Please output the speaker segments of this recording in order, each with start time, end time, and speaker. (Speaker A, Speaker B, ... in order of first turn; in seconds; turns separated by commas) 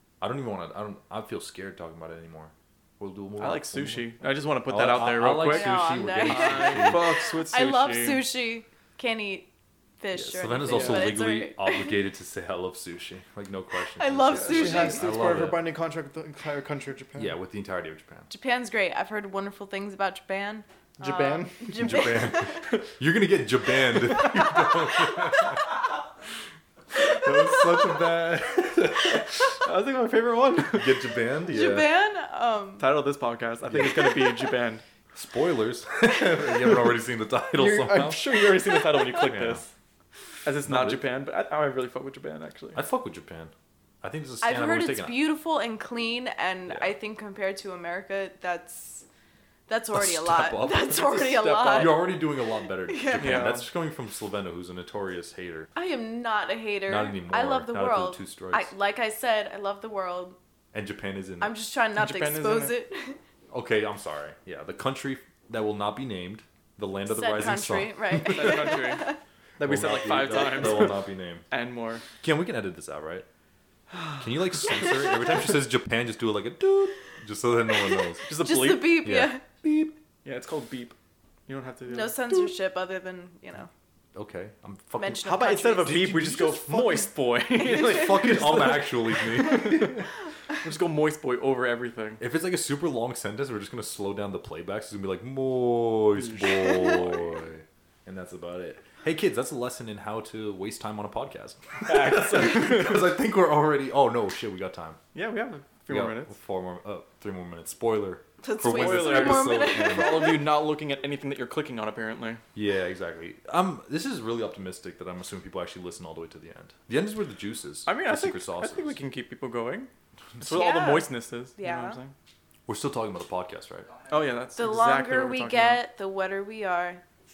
Speaker A: 0.2-4.1, Speaker B: 3.4-8.2, Speaker A: 4.7-7.2, Speaker C: 5.4-12.0, Speaker A: 10.2-15.7, Speaker B: 10.7-11.1, Speaker C: 14.0-15.2, Speaker B: 14.3-17.4, Speaker A: 17.2-18.3, Speaker C: 18.3-22.7, Speaker B: 21.0-21.9, Speaker A: 21.8-25.8, Speaker A: 26.9-29.6, Speaker B: 29.6-31.1, Speaker A: 30.7-31.9, Speaker C: 31.5-33.0, Speaker B: 32.8-34.8, Speaker A: 33.7-34.3, Speaker A: 35.1-39.7, Speaker B: 37.5-39.7, Speaker B: 40.5-42.8, Speaker A: 40.6-41.1, Speaker A: 42.7-45.2, Speaker C: 44.4-49.0, Speaker A: 46.7-46.9, Speaker C: 49.7-52.2, Speaker A: 49.9-55.7, Speaker C: 52.9-53.6, Speaker B: 53.1-53.6, Speaker C: 55.8-60.4, Speaker A: 56.9-58.7, Speaker A: 60.7-61.5, Speaker C: 61.4-63.2, Speaker B: 62.0-62.8, Speaker A: 63.5-68.7, Speaker C: 67.1-69.2, Speaker B: 68.3-72.0, Speaker A: 69.6-71.5, Speaker A: 72.2-73.3, Speaker B: 73.9-74.2, Speaker A: 74.2-78.3, Speaker B: 78.3-79.0, Speaker C: 78.3-79.4, Speaker A: 79.0-79.9, Speaker B: 80.2-81.0, Speaker B: 81.5-82.5, Speaker C: 81.9-83.7, Speaker A: 84.1-85.2, Speaker C: 85.0-86.0, Speaker B: 85.2-88.9, Speaker A: 85.8-87.1, Speaker C: 87.6-88.6, Speaker A: 87.6-90.1, Speaker B: 89.4-89.9, Speaker B: 90.6-92.2, Speaker A: 92.2-105.0, Speaker B: 101.8-103.0, Speaker B: 105.1-106.4, Speaker A: 105.9-110.4, Speaker C: 108.4-110.5, Speaker B: 108.6-112.4, Speaker A: 112.5-119.0, Speaker B: 117.9-122.1, Speaker C: 120.5-122.0, Speaker A: 122.7-123.9, Speaker B: 124.1-125.8, Speaker C: 124.6-127.0